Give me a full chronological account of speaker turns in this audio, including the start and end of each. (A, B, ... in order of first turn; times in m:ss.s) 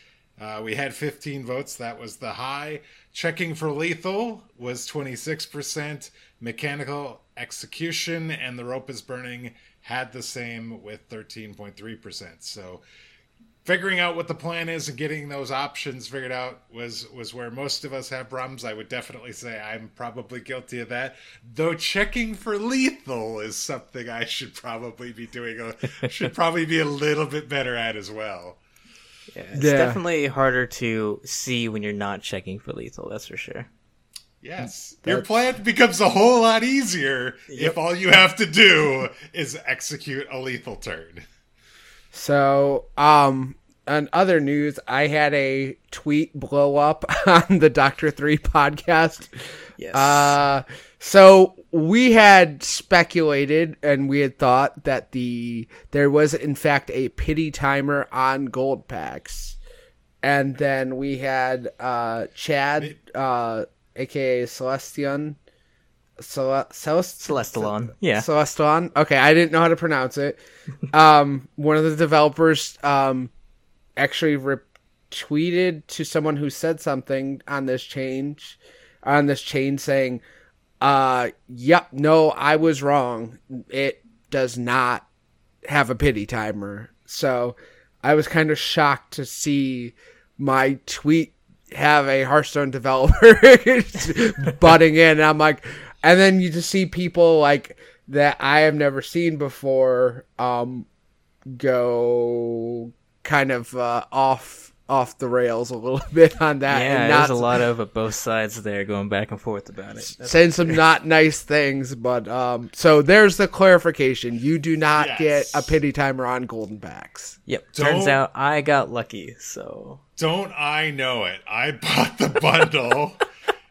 0:00.4-0:12.8 A
0:13.6-0:28.6 A
0:29.3-0:33.7 B
0:29.5-0:30.0 C
0:34.4-0:41.2 A
0:37.5-0:37.8 B
0:42.1-0:59.6 C
0:49.8-0:50.4 B
1:00.2-1:05.4 C
1:06.2-1:10.4 C
1:07.2-1:08.3 B
1:10.9-1:13.3 C
1:14.0-1:20.2 C
1:20.8-1:25.0 C
1:25.6-1:40.9 C
1:41.4-1:47.5 C
1:46.7-1:50.8 B
1:50.2-1:57.4 C
1:55.0-1:55.8 A
1:57.5-2:00.0 B
1:57.7-1:58.2 A
2:00.2-2:03.2 A